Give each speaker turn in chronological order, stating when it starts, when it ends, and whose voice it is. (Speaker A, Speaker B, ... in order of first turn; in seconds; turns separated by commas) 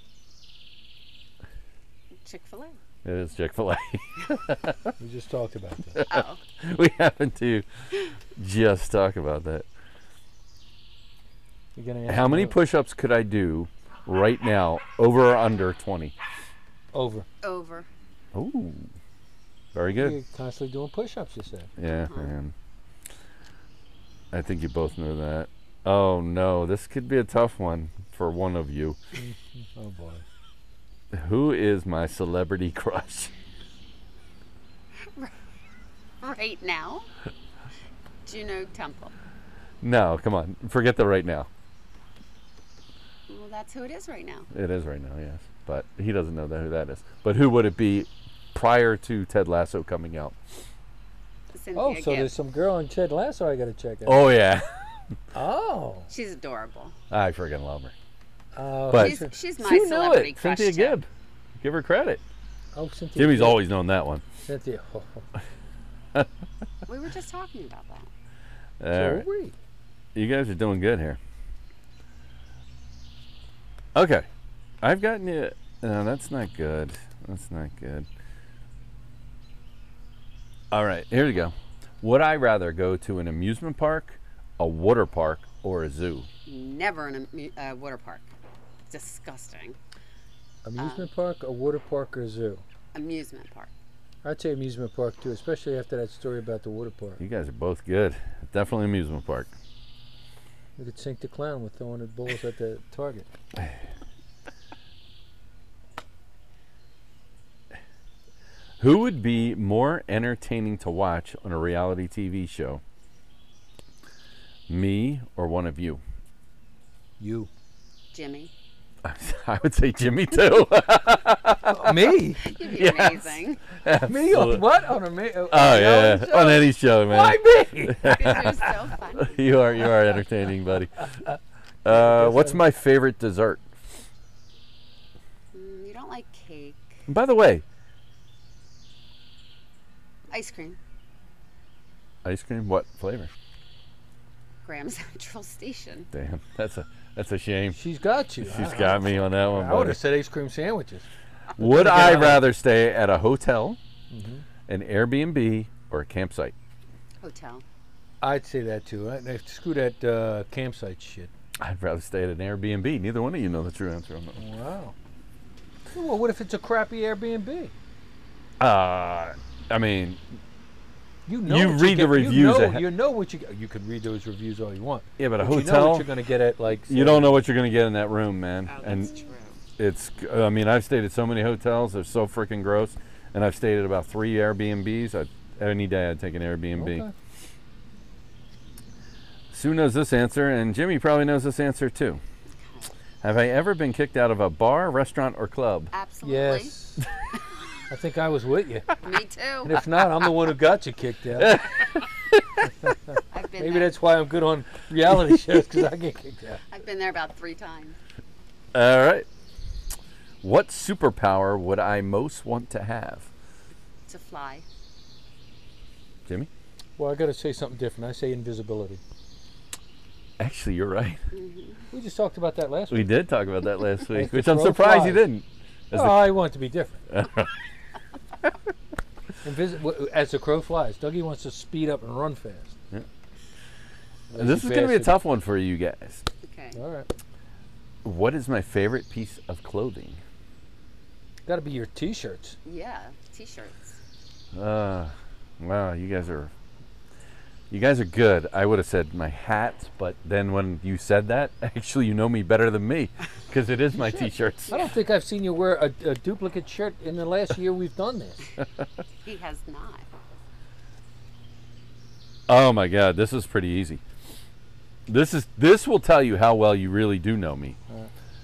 Speaker A: 2.2-2.8, Speaker B: 3.0-4.9, Speaker C: 5.0-6.0, Speaker B: 5.9-7.7, Speaker A: 6.0-6.4, Speaker B: 8.3-9.7, Speaker C: 11.7-12.6, Speaker B: 12.1-16.1, Speaker C: 16.9-17.3, Speaker A: 17.4-17.9, Speaker B: 18.3-18.9, Speaker B: 19.7-20.2, Speaker C: 19.9-21.7, Speaker B: 21.8-22.5, Speaker A: 21.9-22.3, Speaker B: 24.3-29.0, Speaker C: 29.1-30.2, Speaker B: 31.1-33.3, Speaker A: 35.0-35.4, Speaker A: 36.2-37.1, Speaker A: 38.2-39.1, Speaker B: 39.8-41.5, Speaker A: 43.3-44.5, Speaker B: 44.5-50.4, Speaker A: 51.5-52.3, Speaker C: 51.7-54.2, Speaker B: 54.0-54.8, Speaker C: 55.3-56.1, Speaker A: 56.1-56.9, Speaker B: 57.1-57.9, Speaker C: 58.5-59.4, Speaker B: 58.9-61.1, Speaker A: 58.9-61.0, Speaker B: 61.6-62.2, Speaker C: 62.7-63.6, Speaker B: 63.1-64.2, Speaker C: 64.5-65.2, Speaker A: 66.9-68.1, Speaker B: 68.8-69.2, Speaker C: 68.9-69.5, Speaker B: 70.1-71.2, Speaker B: 73.9-74.3, Speaker B: 74.8-78.1, Speaker B: 80.7-86.3, Speaker A: 86.5-88.3, Speaker A: 88.9-89.8, Speaker C: 90.6-92.6, Speaker A: 90.8-91.1, Speaker A: 92.9-93.7, Speaker C: 94.2-97.2, Speaker B: 97.2-99.5, Speaker C: 100.8-103.3, Speaker B: 108.8-112.8, Speaker B: 114.7-116.0, Speaker C: 117.2-117.5, Speaker A: 118.1-118.5, Speaker B: 119.0-124.8, Speaker C: 121.6-122.4, Speaker A: 122.4-123.6, Speaker C: 124.0-128.7, Speaker B: 125.5-131.2, Speaker A: 127.9-129.8, Speaker B: 131.8-133.6, Speaker C: 131.8-132.6, Speaker A: 135.5-137.0, Speaker B: 137.1-137.6, Speaker A: 140.3-140.8, Speaker B: 142.2-143.3, Speaker A: 144.6-146.1, Speaker B: 146.1-147.8, Speaker C: 147.7-152.5, Speaker B: 148.4-150.0, Speaker B: 151.6-153.8, Speaker C: 154.1-154.4, Speaker B: 154.7-156.5, Speaker A: 157.2-157.6, Speaker C: 158.2-161.3, Speaker B: 161.6-164.4, Speaker C: 164.3-164.9, Speaker C: 165.9-167.7, Speaker B: 168.6-170.2, Speaker C: 171.2-177.3, Speaker B: 171.4-172.9, Speaker B: 175.2-176.1, Speaker B: 176.9-179.1, Speaker A: 178.6-179.6, Speaker B: 179.8-187.1, Speaker C: 186.8-187.1, Speaker B: 189.5-192.2, Speaker A: 192.6-192.9, Speaker B: 193.2-195.9, Speaker A: 195.9-196.7, Speaker C: 196.2-197.1, Speaker C: 197.9-198.9, Speaker A: 199.0-199.8, Speaker C: 199.6-201.7, Speaker B: 201.3-202.7, Speaker C: 202.6-206.6, Speaker A: 203.3-203.9, Speaker A: 206.7-208.0, Speaker B: 208.7-209.2, Speaker B: 210.4-213.3, Speaker A: 214.1-214.6, Speaker C: 217.0-219.0, Speaker B: 220.4-221.2, Speaker A: 221.3-221.9, Speaker C: 221.9-223.1, Speaker B: 222.9-226.4, Speaker C: 224.1-225.3, Speaker C: 225.9-227.0, Speaker B: 227.1-227.6, Speaker C: 229.4-232.8, Speaker C: 234.3-235.2, Speaker B: 234.3-236.2, Speaker A: 236.4-236.8, Speaker C: 236.7-237.1, Speaker B: 238.0-240.2, Speaker C: 241.4-242.6, Speaker A: 242.6-244.0, Speaker B: 244.5-246.5, Speaker B: 247.7-254.9, Speaker C: 254.7-258.4, Speaker A: 259.2-260.1, Speaker B: 262.5-264.0, Speaker B: 265.1-267.8